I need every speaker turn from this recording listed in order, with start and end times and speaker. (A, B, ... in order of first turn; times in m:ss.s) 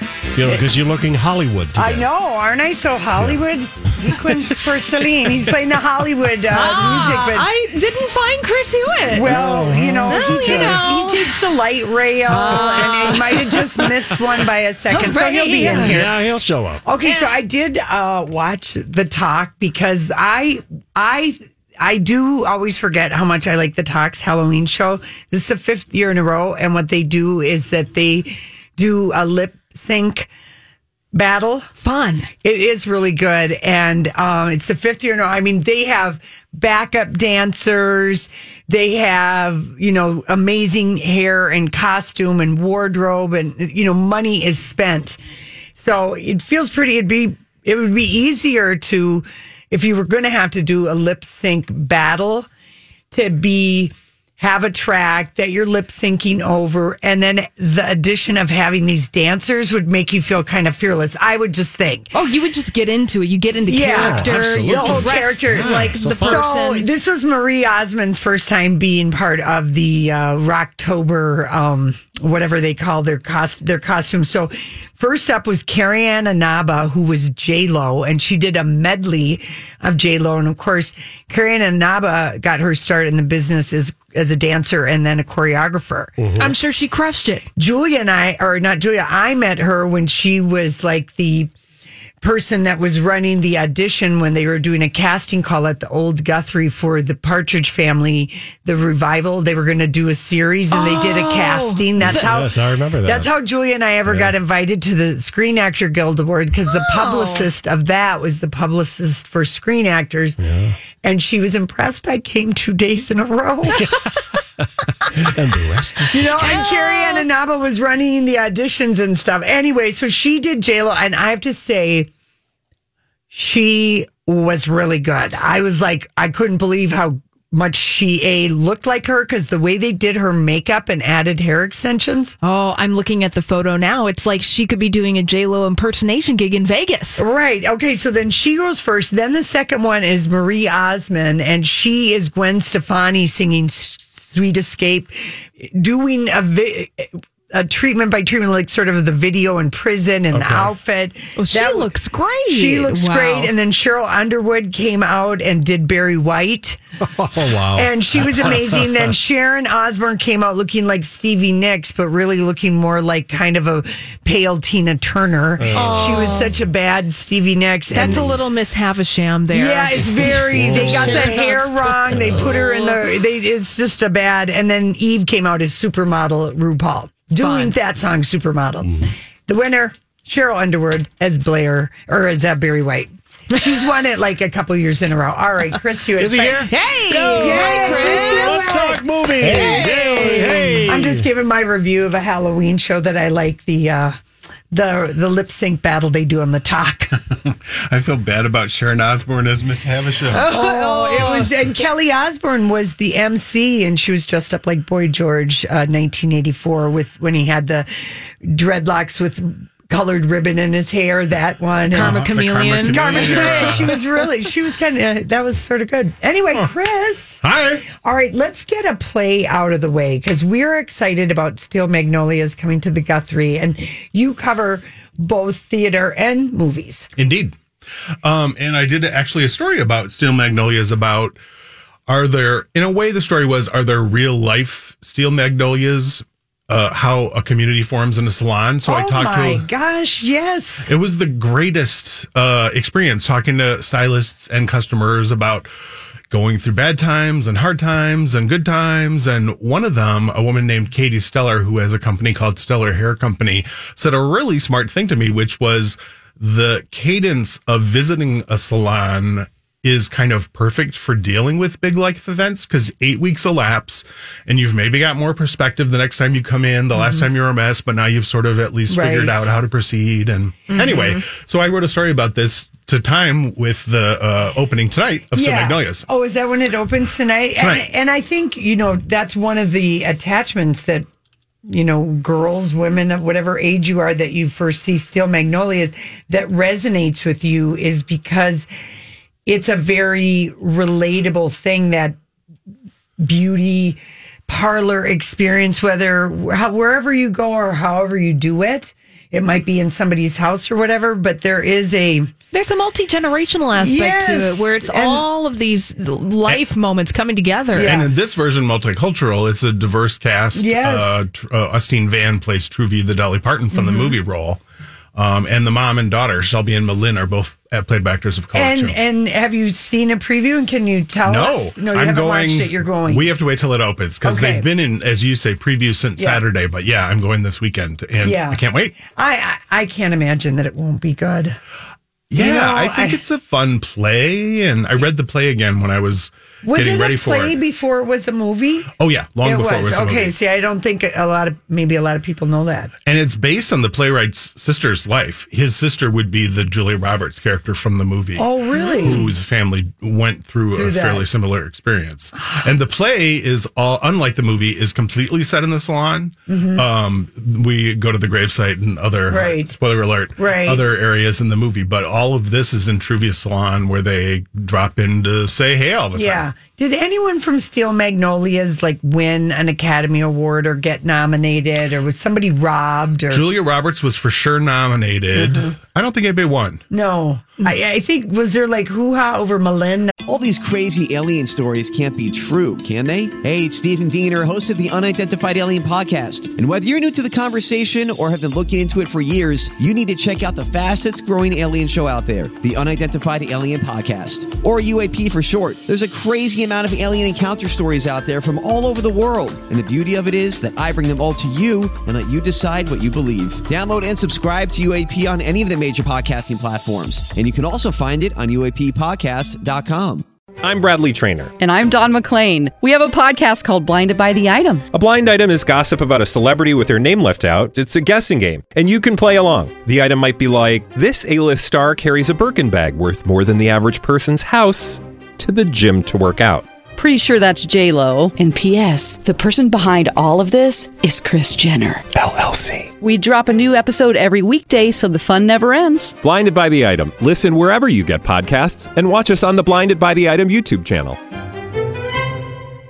0:00.4-0:02.1 A
0:01.8-0:07.5 B
0:06.5-0:09.3 C
0:09.1-0:16.2 B
0:09.2-0:10.8 A
0:10.1-0:11.4 C
0:12.3-0:13.9 C
0:14.9-0:16.0 C
0:15.6-0:16.8 A
0:16.8-0:30.3 B
0:17.0-0:17.4 C
0:31.1-0:31.7 B
0:31.8-0:32.3 C
0:32.4-0:45.2 B
0:45.8-0:52.5 B
0:53.1-1:02.1 B
1:02.1-1:06.9 C
1:03.7-1:26.2 B
1:03.9-1:06.4 A
1:26.2-1:26.5 A
1:26.4-1:27.5 C
1:27.6-1:31.5 B
1:32.2-1:50.4 B
1:40.7-1:42.3 C
1:42.0-1:43.3 A
1:44.1-1:44.3 A
1:46.7-1:47.5 C
1:50.4-1:50.8 A
1:51.0-1:53.9 B
1:53.8-1:54.2 A
1:55.0-1:56.6 A
1:56.1-2:02.1 B
1:56.4-1:57.2 C
2:03.3-2:12.4 B
2:12.4-2:17.2 C
2:17.2-2:31.9 B
2:30.3-2:30.7 A
2:31.4-2:33.5 C
2:32.5-2:36.8 B
2:37.0-2:38.9 A
2:37.7-2:48.3 B
2:45.6-2:46.5 A
2:45.7-2:46.5 C
2:47.9-2:53.0 C
2:48.1-2:48.3 A
2:49.5-3:06.7 B
2:50.1-2:51.4 A
2:52.1-2:52.6 A
2:57.4-2:57.8 C
3:06.2-3:11.3 A
3:06.7-3:08.8 C
3:07.3-3:14.2 B
3:09.4-3:09.8 D
3:09.5-3:10.8 C
3:14.7-3:17.2 B
3:17.5-3:20.5 D
3:20.3-3:21.5 C
3:20.4-3:27.9 B
3:28.4-3:32.3 B
3:31.9-3:34.0 C
3:31.9-3:34.0 D
3:32.8-3:47.1 B
3:37.4-3:37.8 D
3:47.2-3:47.6 D
3:48.2-3:51.4 D
3:52.1-3:59.6 D
3:58.8-4:00.9 B
4:00.9-4:05.7 D
4:06.3-4:36.0 D
4:27.0-4:27.2 B
4:28.9-4:29.5 B
4:30.8-4:31.1 C
4:35.3-4:41.1 B
4:37.6-4:37.9 D
4:41.6-4:48.7 B
4:49.5-4:52.2 B
4:53.2-5:02.3 B
5:02.5-5:08.0 C
5:03.8-5:05.2 B
5:07.7-5:08.1 B
5:07.8-5:14.6 D
5:10.5-5:11.2 B
5:13.7-5:14.2 B
5:15.1-5:19.0 D
5:18.5-5:23.3 B
5:21.2-5:29.0 D
5:24.2-5:24.7 B
5:26.2-5:26.4 B
5:28.2-5:31.6 B
5:32.3-5:37.6 D
5:32.4-5:33.2 B
5:36.6-5:42.9 B
5:39.0-5:40.3 D
5:43.1-6:06.4 D
5:48.4-5:49.3 B
5:50.7-5:51.3 B
5:56.5-5:56.9 B
5:59.3-5:59.8 B
6:00.4-6:00.8 B
6:06.1-6:13.4 B
6:13.3-6:16.8 D
6:15.4-6:15.7 B
6:16.9-6:20.2 B
6:20.2-6:50.2 E
6:50.6-6:51.5 F
6:51.6-6:54.8 G
6:54.9-7:06.6 F
7:07.0-7:12.1 G
7:13.0-7:16.1 G
7:16.2-7:21.2 F